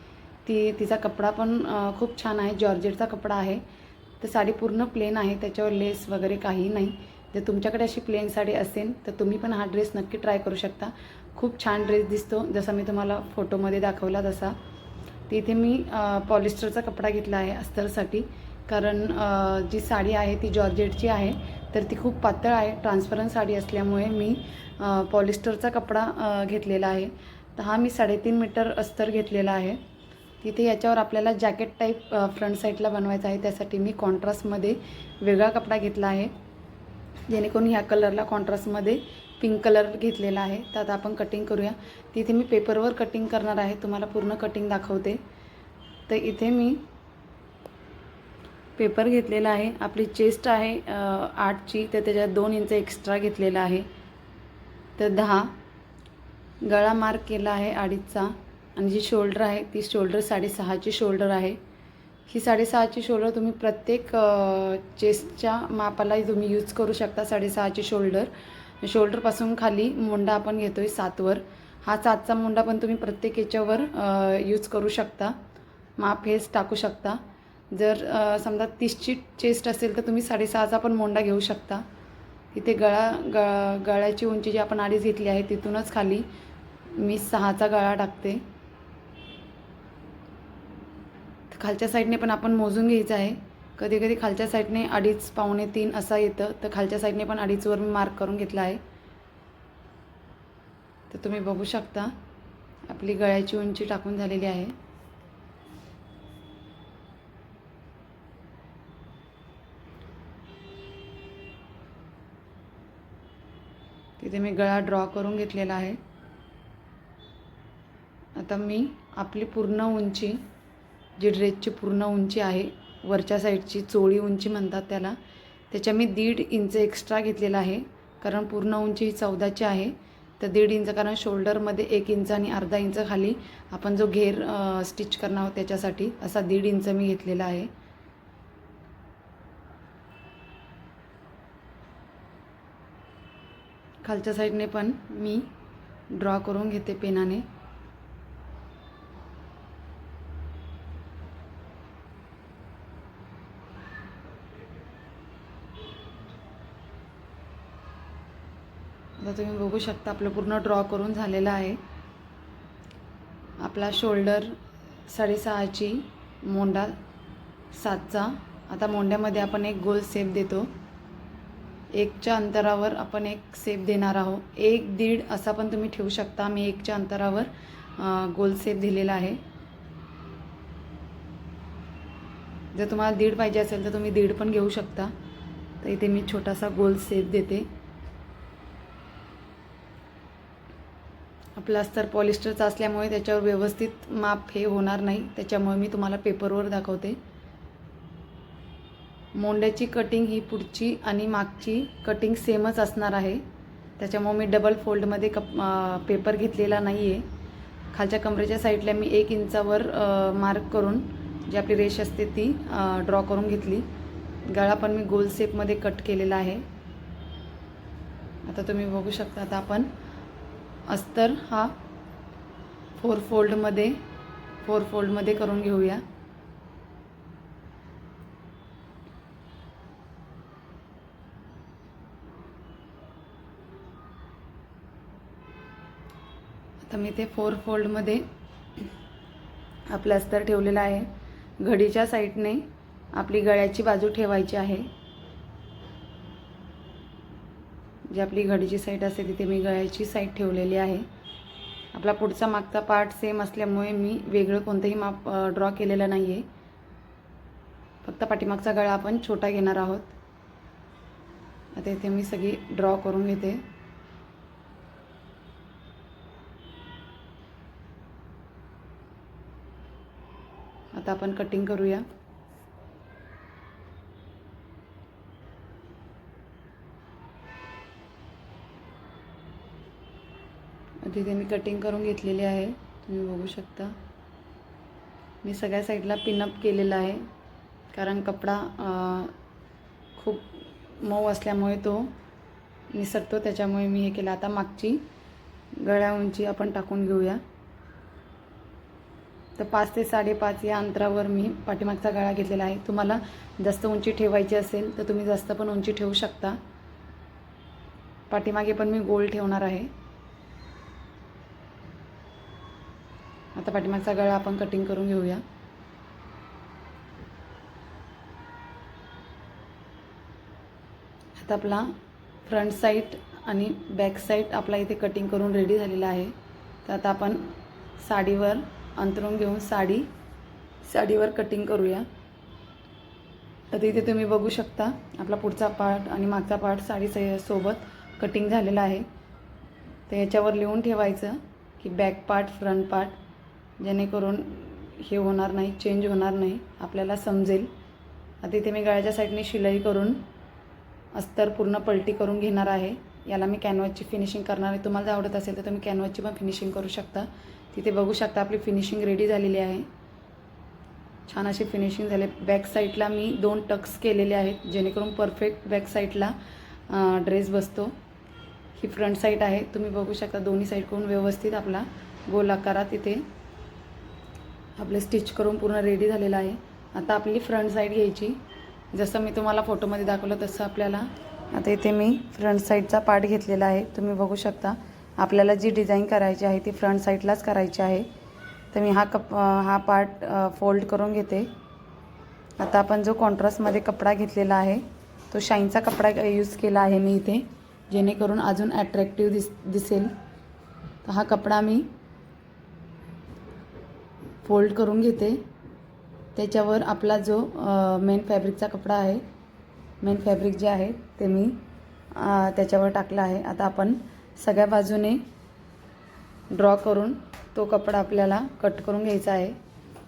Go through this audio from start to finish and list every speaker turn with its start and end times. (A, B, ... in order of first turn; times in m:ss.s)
0:00.4-0:03.6 A
0:04.2-0:14.6 A
0:15.3-0:29.8 A
0:30.4-0:36.3 A
0:37.3-0:45.2 A
0:46.1-0:46.8 A
0:48.8-0:53.9 A
0:55.0-0:55.6 A
0:56.6-1:01.6 A
1:02.3-1:15.4 A
1:16.0-1:21.8 A
1:22.5-1:26.2 A
1:26.9-1:28.4 A
1:31.5-1:38.8 A
1:41.1-1:42.1 A
1:42.9-1:44.7 A
1:54.2-1:56.0 A
1:58.4-2:00.4 A
2:01.2-2:05.2 A
2:05.7-2:17.7 A
2:24.0-2:25.5 A
2:26.1-2:27.4 A
2:39.2-2:41.8 A
2:43.6-2:47.0 A
2:47.7-2:50.7 A
2:51.9-2:59.4 A
3:02.7-3:05.1 A
3:05.8-3:07.7 A
3:11.6-3:17.2 A
3:19.3-3:23.4 A
3:24.0-3:27.2 A
3:27.9-3:33.9 A
3:34.5-3:36.6 A
3:38.4-3:39.9 A
3:40.9-3:41.8 A
3:43.0-3:44.0 A
3:44.6-3:46.0 A
3:56.8-3:58.2 A
3:59.9-4:04.9 A
4:08.1-4:11.0 A
4:11.9-4:16.4 A
4:18.0-4:20.1 A
4:21.7-4:23.6 A
4:30.9-4:32.0 A
4:41.0-4:43.9 A
4:45.4-4:47.2 A
4:47.9-4:49.3 A
4:50.2-4:52.1 A
4:52.9-4:55.0 A
4:55.8-4:57.4 A
4:59.6-5:06.6 A
5:08.3-5:09.9 A
5:13.5-5:15.4 A
5:21.4-5:21.9 A
5:22.4-5:26.3 A
5:26.8-5:30.1 A
5:30.8-5:32.0 A
5:33.7-5:39.0 A
5:40.1-5:43.2 A
5:43.8-5:47.7 A
5:48.4-5:50.2 A
5:51.1-5:59.9 A
6:01.3-6:06.3 A
6:06.9-6:07.9 A
6:08.7-6:13.3 A
6:14.8-6:18.4 A
6:18.9-6:28.1 A
6:28.7-6:31.5 A
6:32.6-6:40.1 A
6:41.0-6:41.9 A
6:44.4-6:45.4 A
6:46.3-6:49.2 A
6:50.0-6:51.6 A
6:52.1-6:55.2 A
6:56.5-6:59.6 A